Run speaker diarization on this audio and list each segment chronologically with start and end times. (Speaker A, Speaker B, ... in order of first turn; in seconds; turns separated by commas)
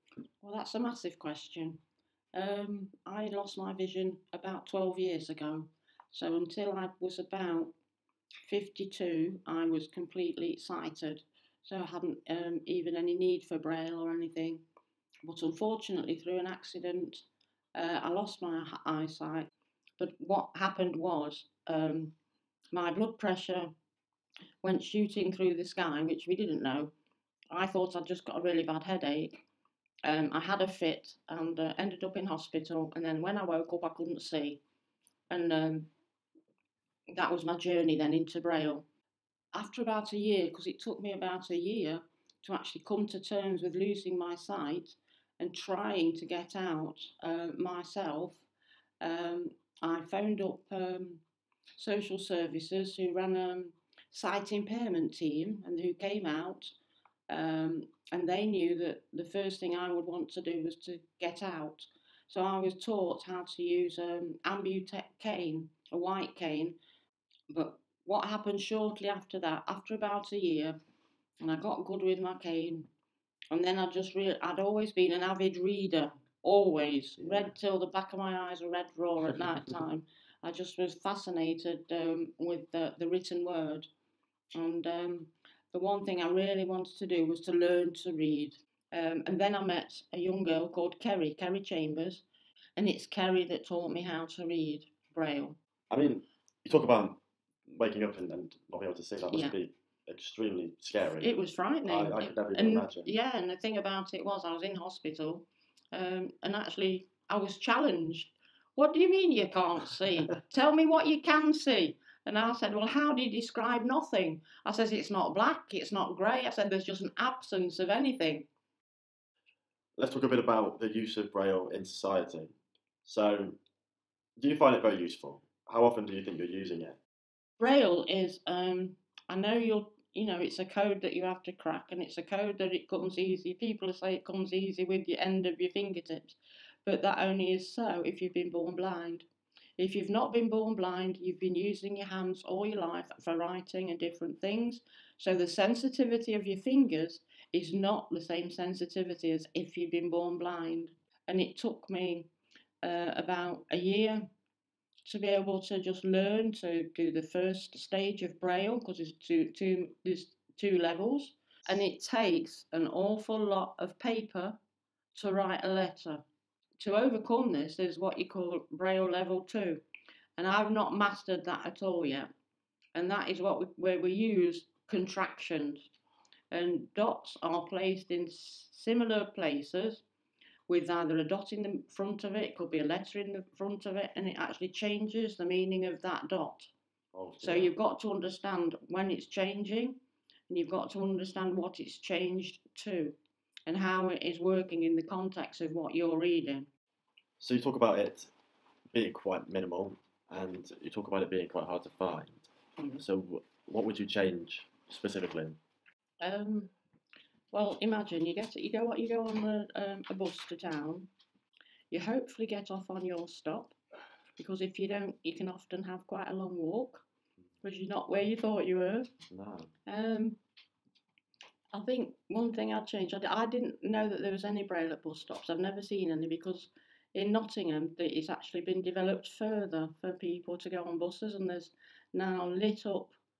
Speaker A: 0.4-1.8, Speaker A: 2.3-7.7, Speaker A: 8.5-14.6, Speaker A: 15.2-22.1, Speaker A: 22.7-23.7, Speaker A: 24.6-26.9, Speaker A: 27.5-29.3, Speaker A: 30.0-34.6, Speaker A: 35.3-35.9, Speaker A: 37.1-38.8, Speaker A: 39.5-48.5, Speaker A: 49.0-51.2, Speaker A: 51.8-56.7, Speaker A: 57.3-66.8, Speaker A: 67.5-70.8, Speaker A: 71.4-72.9, Speaker A: 73.5-83.9, Speaker B: 77.2-77.5, Speaker A: 84.5-92.2, Speaker A: 92.8-95.6, Speaker B: 95.9-101.3, Speaker A: 99.3-99.6, Speaker A: 101.0-118.5, Speaker B: 101.8-103.1, Speaker B: 120.0-122.5, Speaker B: 123.0-123.6, Speaker B: 124.4-127.0, Speaker A: 127.6-139.3, Speaker A: 139.8-152.3, Speaker A: 152.8-154.3, Speaker A: 155.0-164.6, Speaker A: 165.1-166.2, Speaker A: 166.8-169.8, Speaker A: 170.4-172.3, Speaker A: 172.9-175.9, Speaker A: 176.5-180.0, Speaker A: 180.7-186.7, Speaker B: 187.1-187.7, Speaker A: 187.4-190.0, Speaker A: 190.5-193.2, Speaker A: 193.7-196.7, Speaker B: 197.4-198.3, Speaker B: 198.9-202.4, Speaker A: 202.8-203.0, Speaker B: 203.0-205.6, Speaker A: 206.2-206.7, Speaker A: 207.5-211.1, Speaker A: 211.9-213.7, Speaker A: 214.4-217.1, Speaker A: 217.6-219.1, Speaker B: 219.3-219.7, Speaker A: 219.8-220.4, Speaker A: 221.7-233.1